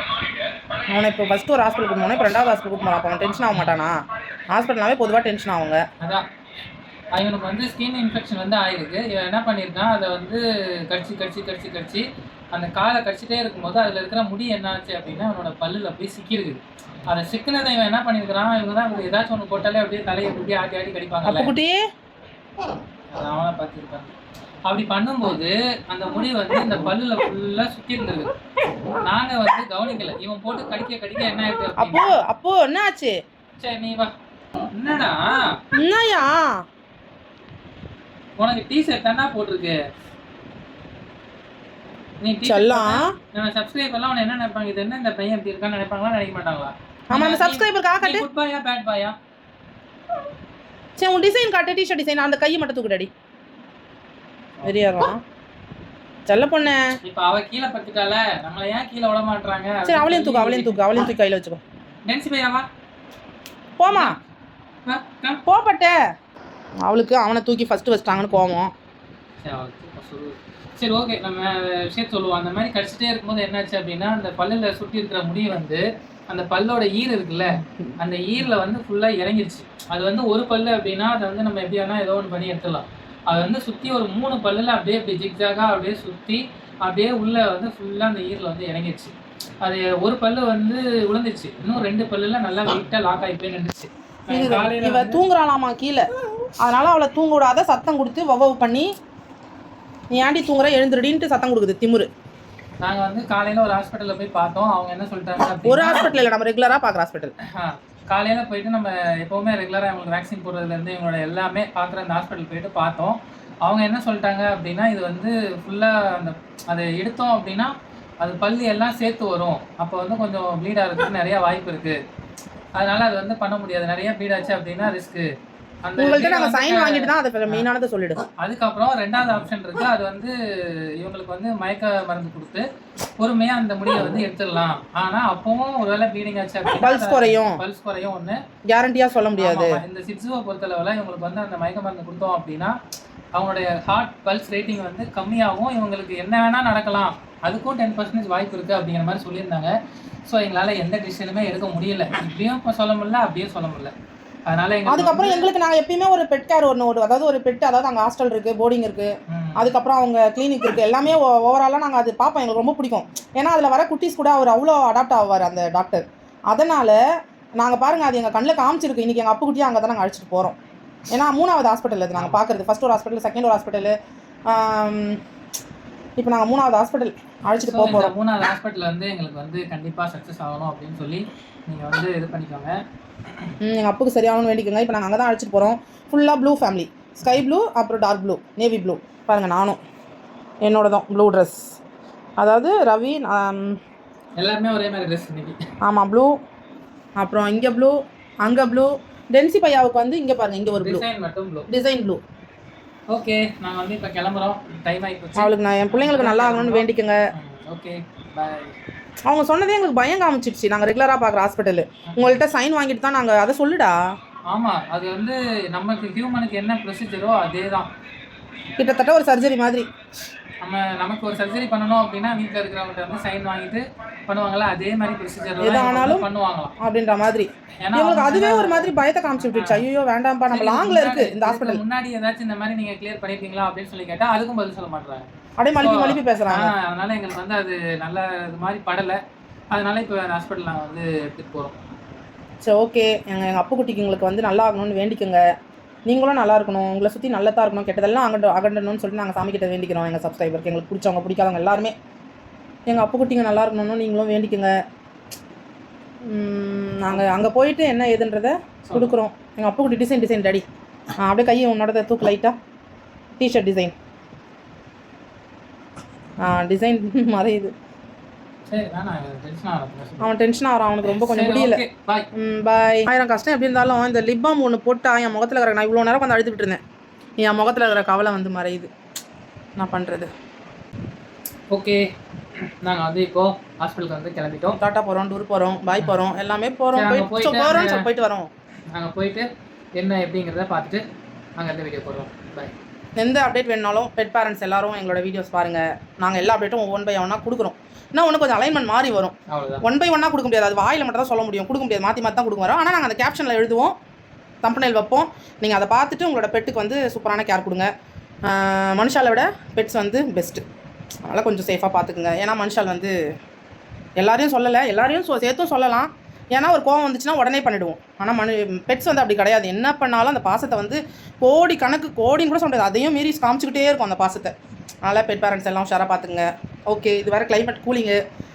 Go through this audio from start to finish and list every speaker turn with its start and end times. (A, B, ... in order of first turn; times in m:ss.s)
0:00.9-0:04.0 A
0:04.5-0:05.8 A
0:07.1-0:21.5 B
0:21.2-0:21.8 A
0:23.1-0:24.1 B
0:24.7-0:28.3 B
0:29.0-0:32.1 B
0:31.8-0:33.2 A
0:33.6-0:34.1 B
0:34.7-0:35.6 B
0:35.8-0:36.6 A
0:38.4-0:39.8 B
0:42.2-0:49.2 B
0:42.4-0:43.2 A
0:47.1-0:48.2 A
0:51.0-0:53.1 A
0:54.6-0:55.2 A
0:56.3-0:56.9 A
0:57.0-1:00.9 B
0:59.8-1:01.6 A
1:02.1-1:02.7 B
1:03.8-1:04.2 A
1:03.9-1:04.2 B
1:04.9-1:05.4 B
1:05.5-1:06.0 A
1:06.8-1:08.7 A
1:09.4-1:35.2 B
1:34.3-1:36.1 A
1:36.6-1:38.9 A
1:40.1-1:42.1 A
1:42.8-1:46.2 B
1:45.6-1:47.3 A
1:47.4-2:02.0 B
2:02.8-2:05.3 B
2:05.8-2:07.6 B
2:06.0-2:08.2 A
2:08.4-2:12.6 B
2:13.2-2:18.4 B
2:16.8-2:17.6 A
2:18.7-2:19.8 A
2:19.4-2:22.8 B
2:23.3-2:29.7 B
2:30.2-2:33.9 B
2:34.5-2:35.5 B
2:34.9-2:47.0 A
2:39.3-2:39.7 B
2:47.6-2:50.6 A
2:51.1-2:54.0 A
2:54.5-2:55.2 A
2:56.2-2:58.1 A
2:57.6-3:02.8 B
3:03.6-3:09.8 A
3:10.6-3:11.6 A
3:12.4-3:13.8 A
3:14.4-3:15.6 B
3:15.8-3:16.3 A
3:17.2-3:21.1 A
3:20.8-3:21.7 B
3:21.7-3:22.2 A
3:23.1-3:28.8 B
3:25.4-3:27.2 A
3:29.2-3:34.0 A
3:32.1-3:32.4 B
3:34.5-3:37.9 B
3:38.8-3:39.9 A
3:40.6-3:46.7 B
3:45.6-3:46.2 A
3:46.8-3:51.8 A
3:47.8-3:49.9 B
3:50.5-3:55.3 B
3:55.6-3:56.7 A
3:55.8-3:59.2 B
3:59.7-4:01.8 B
4:02.6-4:05.4 A
4:06.1-4:11.9 A
4:12.9-4:14.7 A
4:16.2-4:20.6 A
4:21.2-4:22.6 A
4:23.4-4:23.9 A
4:26.4-4:27.7 A
4:28.7-4:30.3 B
4:30.2-4:31.8 A
4:31.0-4:32.2 B
4:32.3-4:36.8 A
4:37.4-4:38.9 A
4:39.8-4:40.3 A
4:41.7-4:42.0 B
4:42.6-4:44.8 B
4:44.8-4:48.5 A
4:46.9-4:48.0 B
4:48.9-4:51.0 B
4:51.6-4:52.7 B
4:53.2-5:03.9 A
4:59.5-4:59.8 B
5:04.6-5:07.9 A
5:08.4-5:10.6 A
5:11.2-5:13.1 A
5:14.2-5:24.5 A
5:25.0-5:28.2 A